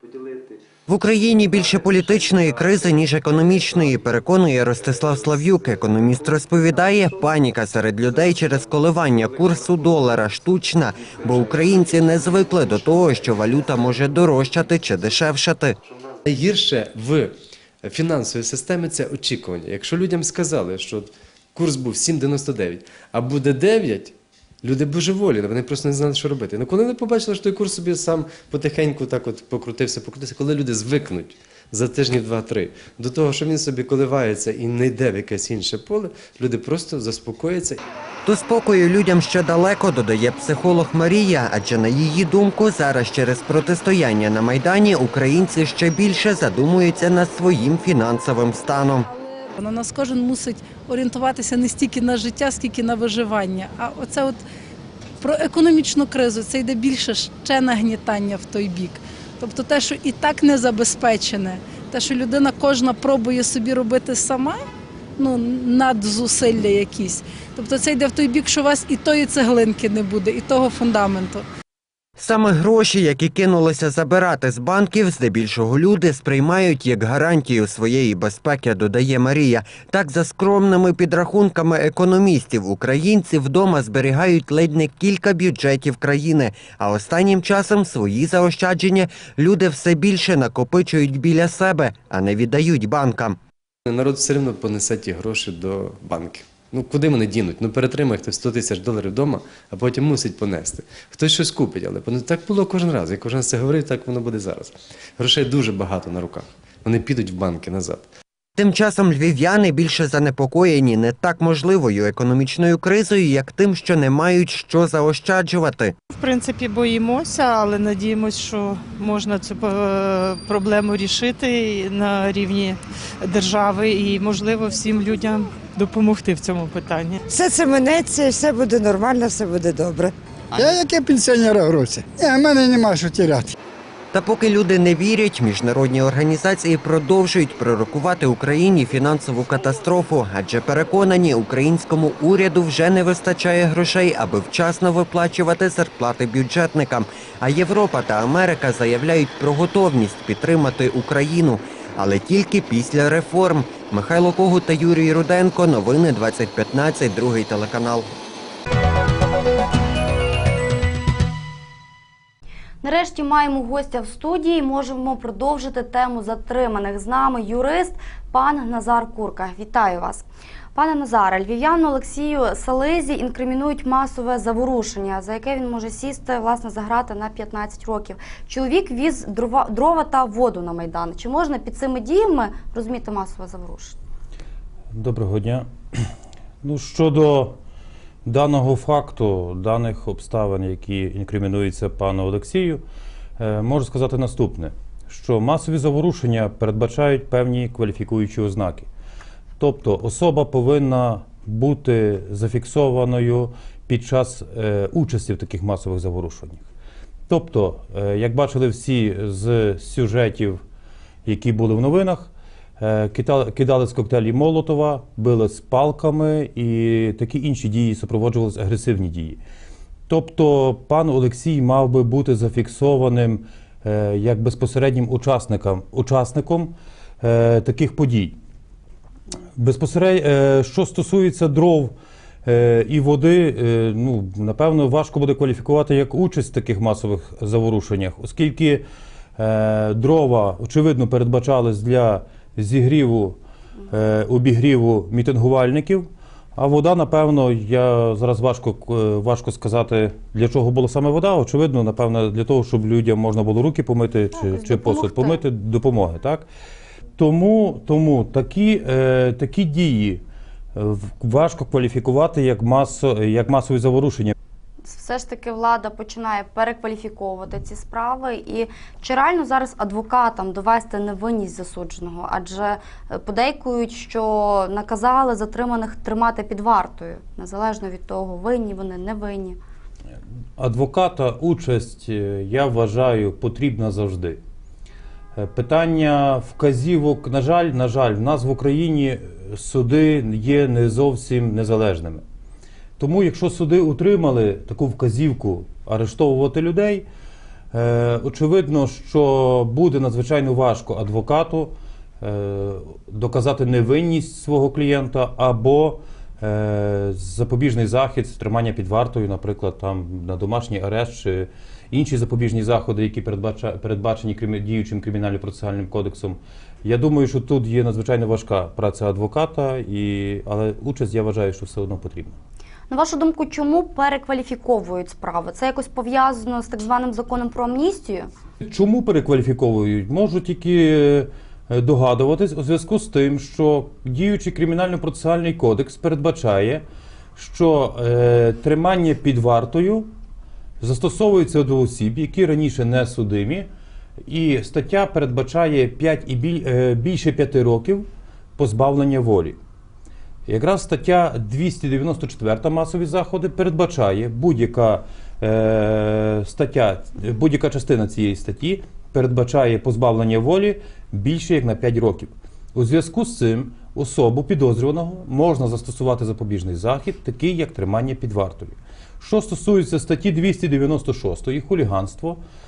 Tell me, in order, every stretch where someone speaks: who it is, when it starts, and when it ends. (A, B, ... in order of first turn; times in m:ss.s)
0:00.9-0:15.8 A
0:16.2-0:37.8 B
0:38.2-0:49.1 A
0:49.6-0:54.4 C
0:55.2-1:04.6 C
1:05.2-1:11.4 C
1:12.2-1:33.4 A
1:33.9-1:48.1 B
1:48.6-1:55.9 A
1:56.2-2:07.2 D
2:07.3-2:10.1 E
2:10.6-2:13.5 F
2:14.1-2:38.1 A
2:42.8-3:04.0 G
3:05.0-3:05.6 H
3:06.6-3:07.6 H
3:08.2-3:12.8 H
3:13.4-3:18.9 H
3:19.6-3:26.7 H
3:27.3-3:30.6 H
3:31.3-3:39.4 H
3:40.1-3:48.4 H
3:49.6-3:51.9 H
3:52.5-3:58.8 H
3:59.4-4:03.4 H
4:03.9-4:16.5 H
4:14.4-4:15.3 G
4:17.2-4:20.2 H
4:20.8-4:24.4 H
4:24.9-4:39.6 G
4:40.6-4:44.4 H
4:45.4-4:52.2 H
4:53.0-4:57.1 H
4:57.7-5:22.4 H
5:22.9-5:28.3 G
5:28.7-5:36.8 H
5:37.4-5:40.1 H
5:40.8-5:43.7 H
5:44.3-5:48.1 H
5:48.6-5:49.6 H
5:50.5-6:12.4 H